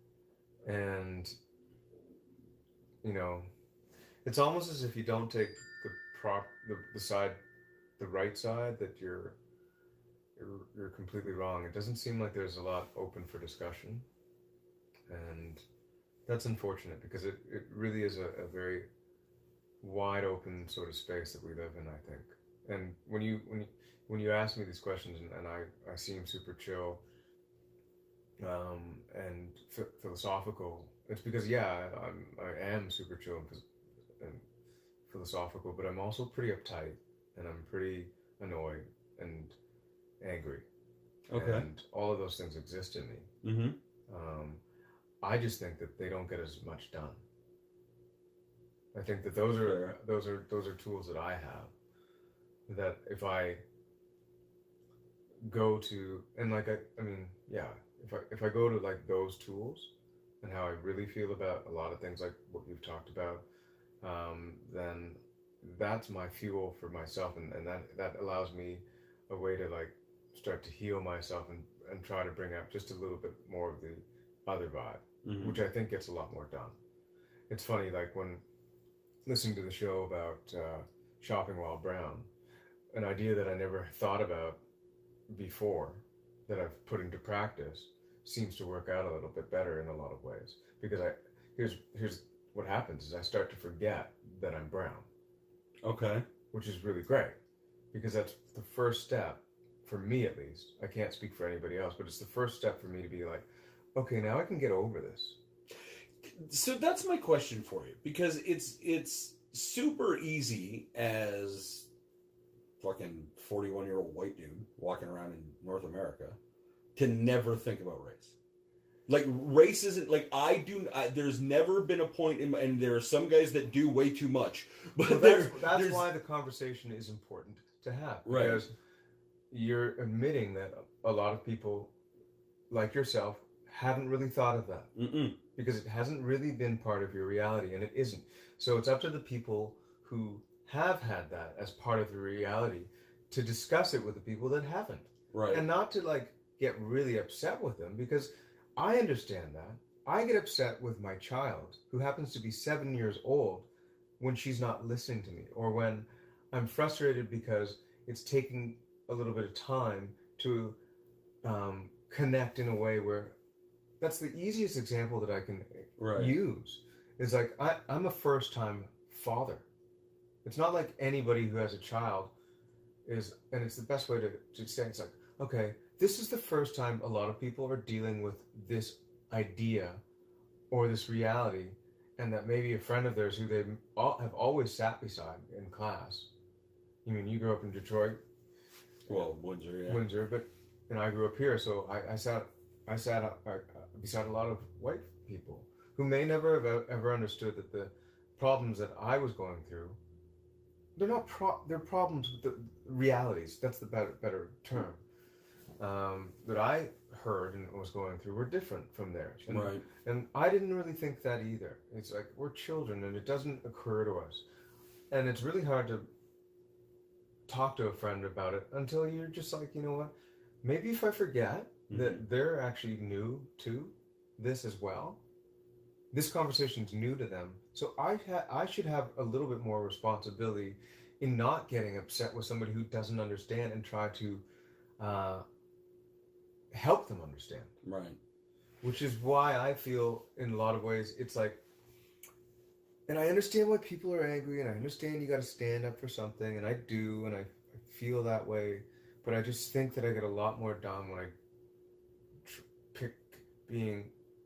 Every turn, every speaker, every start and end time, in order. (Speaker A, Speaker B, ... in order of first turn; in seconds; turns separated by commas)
Speaker A: 0.6-1.3, Speaker A: 3.0-3.5, Speaker A: 4.2-7.4, Speaker A: 8.0-9.4, Speaker A: 10.4-14.0, Speaker A: 15.1-15.6, Speaker A: 16.3-18.9, Speaker A: 19.8-27.0, Speaker A: 28.4-33.6, Speaker A: 35.1-39.5, Speaker A: 40.2-40.6, Speaker B: 41.3-41.6, Speaker A: 41.3-43.3, Speaker B: 43.4-43.8, Speaker A: 44.1-44.6, Speaker A: 45.2-47.2, Speaker A: 48.9-51.7, Speaker B: 49.6-50.0, Speaker A: 52.7-53.6, Speaker A: 55.4-63.5, Speaker A: 64.0-76.8, Speaker B: 75.2-75.6, Speaker A: 77.5-78.4, Speaker A: 79.2-82.3, Speaker A: 82.9-84.6, Speaker A: 85.3-95.1, Speaker B: 95.8-96.2, Speaker A: 96.5-97.4, Speaker A: 97.9-105.4, Speaker B: 106.2-111.9, Speaker B: 112.8-116.4, Speaker B: 117.0-118.3, Speaker B: 119.1-126.1, Speaker A: 125.1-128.7, Speaker B: 128.2-128.7, Speaker A: 129.5-131.9, Speaker A: 132.7-134.9, Speaker B: 134.9-135.4, Speaker A: 135.5-153.7, Speaker B: 145.3-145.6, Speaker A: 154.2-160.8, Speaker A: 161.4-163.4, Speaker A: 164.0-169.7, Speaker B: 166.0-166.4, Speaker A: 170.4-172.3, Speaker A: 173.1-180.0, Speaker A: 180.7-186.3, Speaker A: 187.0-188.2, Speaker B: 189.1-190.0, Speaker A: 189.9-200.0, Speaker A: 200.9-205.0, Speaker A: 205.8-214.4, Speaker B: 209.5-209.9, Speaker A: 215.1-216.1, Speaker A: 217.5-225.2, Speaker B: 221.9-222.2, Speaker A: 226.1-234.4, Speaker A: 235.0-235.4, Speaker A: 236.7-237.7, Speaker B: 237.8-238.2, Speaker A: 238.8-241.6, Speaker A: 243.1-251.3, Speaker A: 252.4-254.1